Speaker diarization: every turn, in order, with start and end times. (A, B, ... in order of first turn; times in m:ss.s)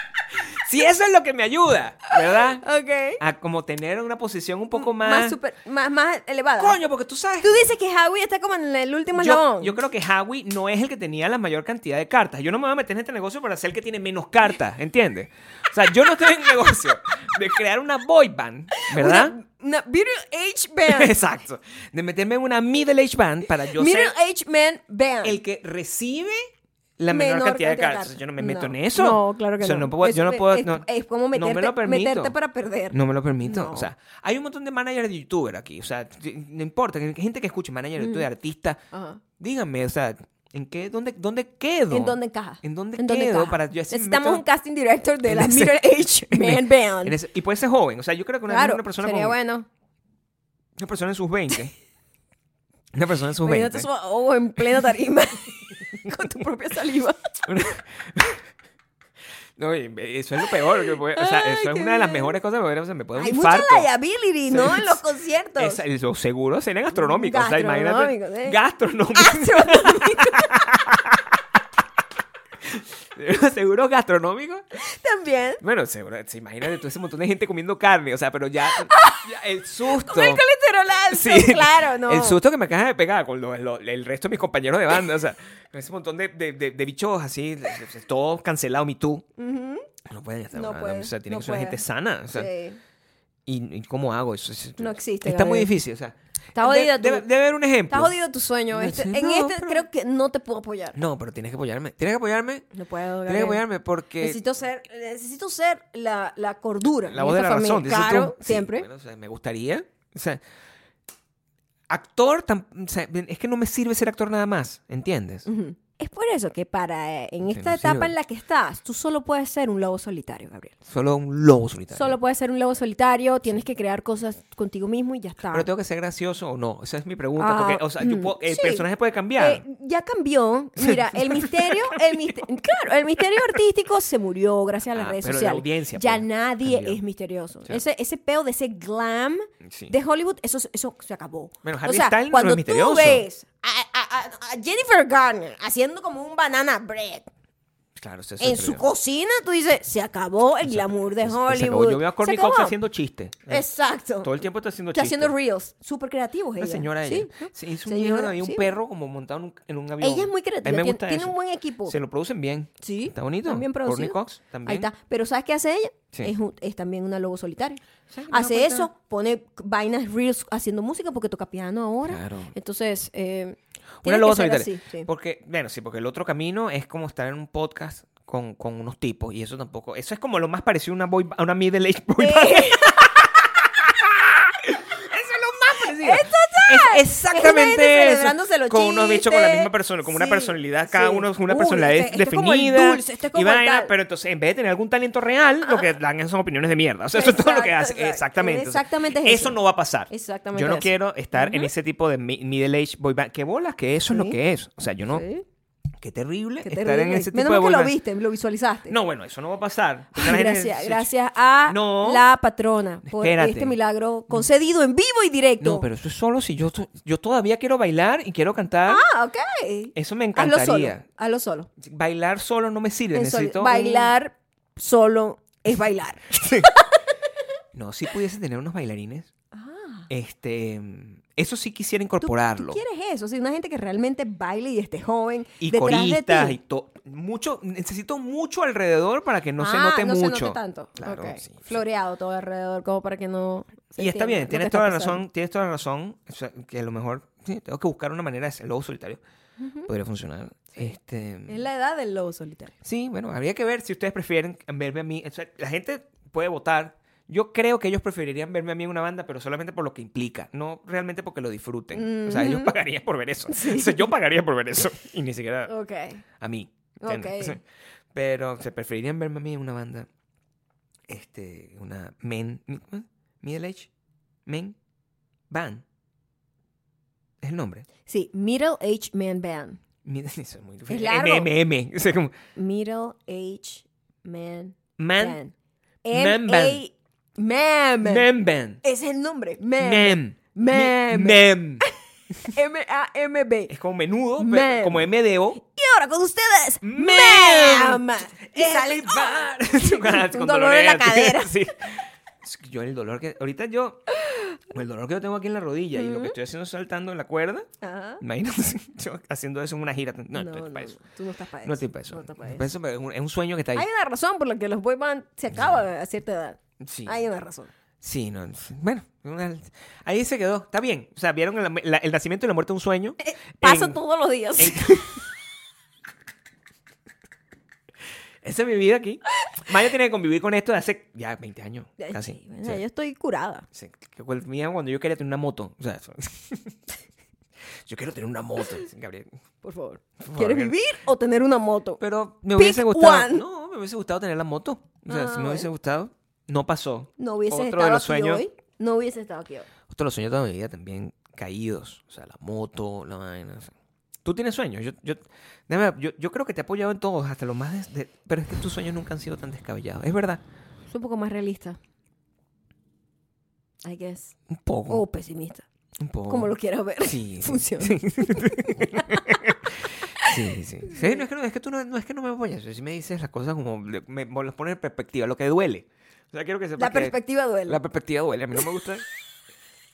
0:00.3-0:02.6 A
0:02.1-0:03.2 B
0:03.2-0:05.4 A
0:04.8-0:06.8 B
0:06.6-0:07.7 A
0:07.4-0:09.8 B
0:09.1-0:19.3 A
0:18.8-0:21.1 B
0:20.8-0:24.1 A
0:23.6-0:25.4 B
0:25.2-0:32.3 A
0:27.1-0:33.9 B
0:32.9-0:38.8 A
0:38.0-0:38.3 B
0:38.9-0:39.2 B
0:39.4-0:44.4 A
0:41.9-0:47.2 B
0:45.2-0:49.4 A
0:48.5-0:49.7 B
0:50.8-0:51.7 A
0:52.9-0:53.9 A
0:53.4-0:57.3 B
0:57.4-0:58.4 A
0:59.6-1:03.9 A
1:00.8-1:02.3 B
1:03.2-1:05.8 B
1:04.5-1:05.0 A
1:05.6-1:11.4 A
1:06.9-1:08.6 B
1:09.1-1:10.6 B
1:12.6-1:14.6 A
1:14.7-1:15.6 B
1:15.6-1:20.4 A
1:18.8-1:19.3 B
1:19.8-1:22.4 B
1:21.1-1:29.2 A
1:29.4-1:29.9 B
1:30.0-1:32.5 A
1:30.5-1:32.8 B
1:33.4-1:38.1 A
1:34.8-1:35.7 B
1:36.6-1:37.2 B
1:37.9-1:41.0 B
1:38.7-1:39.8 A
1:40.9-1:42.7 A
1:42.7-1:43.6 B
1:43.2-1:44.4 A
1:44.2-1:48.9 B
1:47.1-1:50.4 A
1:51.9-1:55.4 A
1:55.4-2:00.7 B
1:57.5-1:58.1 A
2:00.8-2:02.2 A
2:01.9-2:05.7 B
2:05.5-2:09.6 A
2:07.4-2:08.8 B
2:09.4-2:27.3 B
2:10.8-2:12.3 A
2:14.9-2:17.0 A
2:19.6-2:19.9 A
2:21.6-2:23.2 A
2:28.0-2:28.8 A
2:28.4-2:32.7 B
2:30.6-2:33.7 A
2:33.5-2:34.3 B
2:34.2-2:35.3 A
2:34.9-2:38.7 B
2:36.6-2:44.9 A
2:40.0-2:42.0 B
2:42.8-2:55.1 B
2:48.1-2:48.9 A
2:52.0-2:52.5 A
2:54.0-3:25.2 A
3:02.2-3:03.3 B
3:05.8-3:13.9 B
3:17.1-3:19.6 B
3:20.1-3:21.7 B
3:24.1-3:24.4 B
3:25.1-3:25.4 B
3:26.0-3:27.9 A
3:26.6-3:29.0 B
3:28.9-3:31.1 A
3:30.1-3:35.8 B
3:31.6-3:32.2 A
3:33.0-3:33.8 A
3:35.6-3:39.0 A
3:38.8-3:41.7 B
3:39.9-3:41.0 A
3:41.8-3:44.1 A
3:43.1-3:47.0 B
3:46.3-3:46.7 A
3:47.7-3:49.3 A
3:49.5-3:50.1 B
3:50.1-3:52.8 A
3:52.2-3:56.6 B
3:55.6-4:01.8 A
3:59.6-4:05.2 B
4:04.0-4:09.2 A
4:09.6-4:09.9 B
4:09.9-4:11.6 A
4:11.5-4:12.8 B
4:12.8-4:25.7 A
4:21.9-4:22.7 B
4:23.5-4:24.1 B
4:25.7-4:26.2 B
4:26.4-4:27.6 A
4:27.0-4:27.6 B
4:28.1-4:30.1 A
4:31.1-4:33.9 A
4:34.4-4:34.8 A
4:35.5-4:35.8 A
4:37.4-4:37.8 A
4:38.0-4:39.8 B
4:40.0-4:42.3 A
4:40.9-4:41.5 B
4:42.5-4:45.5 B
4:45.0-4:45.4 A
4:46.0-4:48.3 B
4:46.1-4:46.8 A
4:48.0-4:48.8 A
4:48.8-4:53.7 B
4:49.8-4:51.8 A
4:53.7-4:55.6 A
4:54.4-5:01.6 B
4:56.8-5:04.1 A
5:04.7-5:07.7 A
5:05.9-5:06.4 B
5:07.8-5:08.2 B
5:08.2-5:11.0 A
5:10.3-5:12.7 B
5:11.6-5:13.9 A
5:13.7-5:17.7 B
5:16.8-5:17.2 A
5:18.0-5:24.0 A
5:23.2-5:25.2 B
5:24.6-5:25.2 A
5:28.4-5:32.8 A
5:32.0-5:33.6 B
5:33.7-5:36.8 A
5:37.8-5:39.3 A
5:39.6-5:42.0 B
5:40.2-5:40.8 A
5:42.0-5:48.4 A
5:42.6-5:43.4 B
5:45.1-5:45.7 B
5:47.2-5:49.7 B
5:49.9-5:53.7 A
5:54.2-6:00.4 A
6:00.9-6:01.8 B
6:03.8-6:04.4 B
6:04.5-6:05.0 A
6:04.9-6:05.6 B
6:06.0-6:17.1 A
6:06.3-6:09.4 B
6:10.0-6:11.2 B
6:16.8-6:17.8 B
6:17.7-6:19.0 A